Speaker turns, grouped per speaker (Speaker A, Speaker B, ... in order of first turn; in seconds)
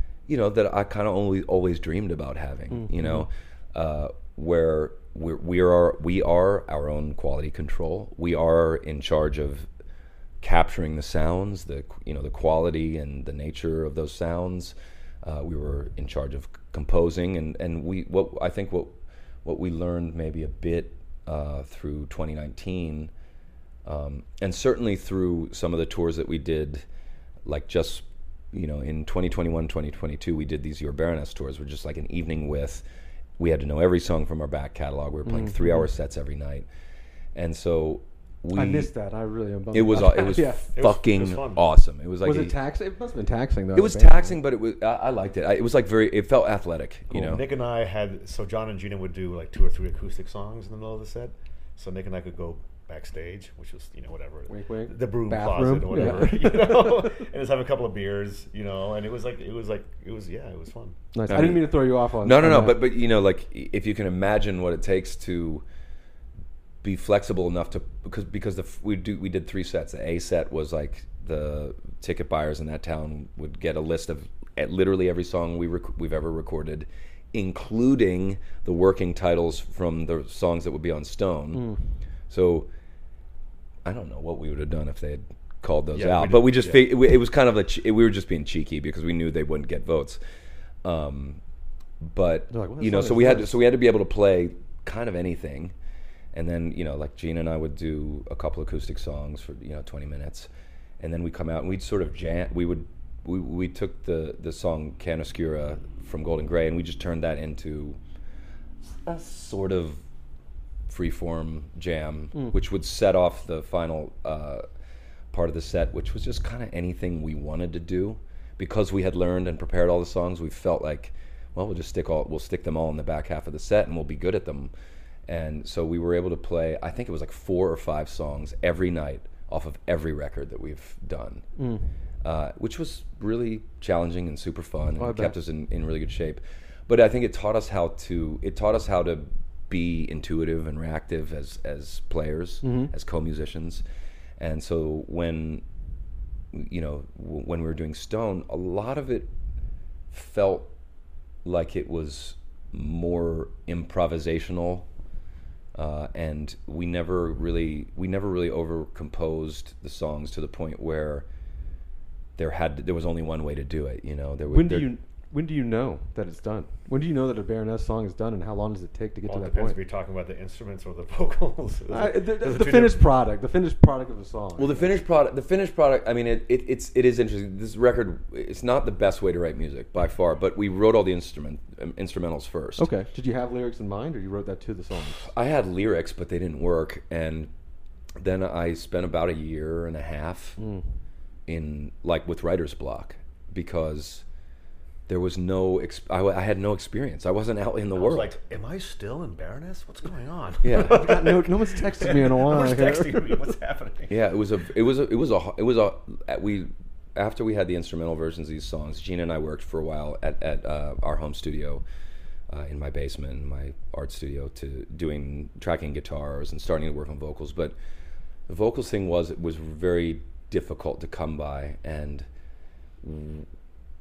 Speaker A: 0.3-9.7, 10.4-23.1, 23.9-26.9, 27.5-32.8, 33.4-36.7, 37.4-38.9, 39.7-42.5, 43.7-47.5, 61.3-65.6, 66.8-81.8, 82.3-82.7, 83.8-90.2, 90.8-91.4, 92.0-95.7, 96.3-100.5, 101.0-108.0, 109.0-110.0, 110.9-114.7, 115.3-124.7, 125.3-131.4, 132.2-143.8, 144.4-145.6, 146.5-149.3, 150.1-150.7, 151.4-154.9, 155.7-161.3, 162.4-164.9, 174.6-182.9, 185.1-187.5, 188.2-190.6, 191.5-194.2, 195.1-198.3, 200.6-201.1, 204.1-211.8, 212.5-217.8, 218.5-222.3, 223.0-223.5
Speaker B: 2.7-3.3, 35.2-35.9, 38.5-40.6, 42.2-44.4, 54.5-57.1, 61.1-62.8, 81.5-81.9, 92.5-93.5, 112.3-112.6, 131.6-131.9, 135.0-135.3, 142.6-142.9, 164.5-169.8, 171.9-174.9, 182.8-185.3, 190.6-190.9, 200.8-203.5
Speaker C: 40.8-41.6, 47.1-61.1, 85.9-87.0, 169.3-173.2, 197.9-204.1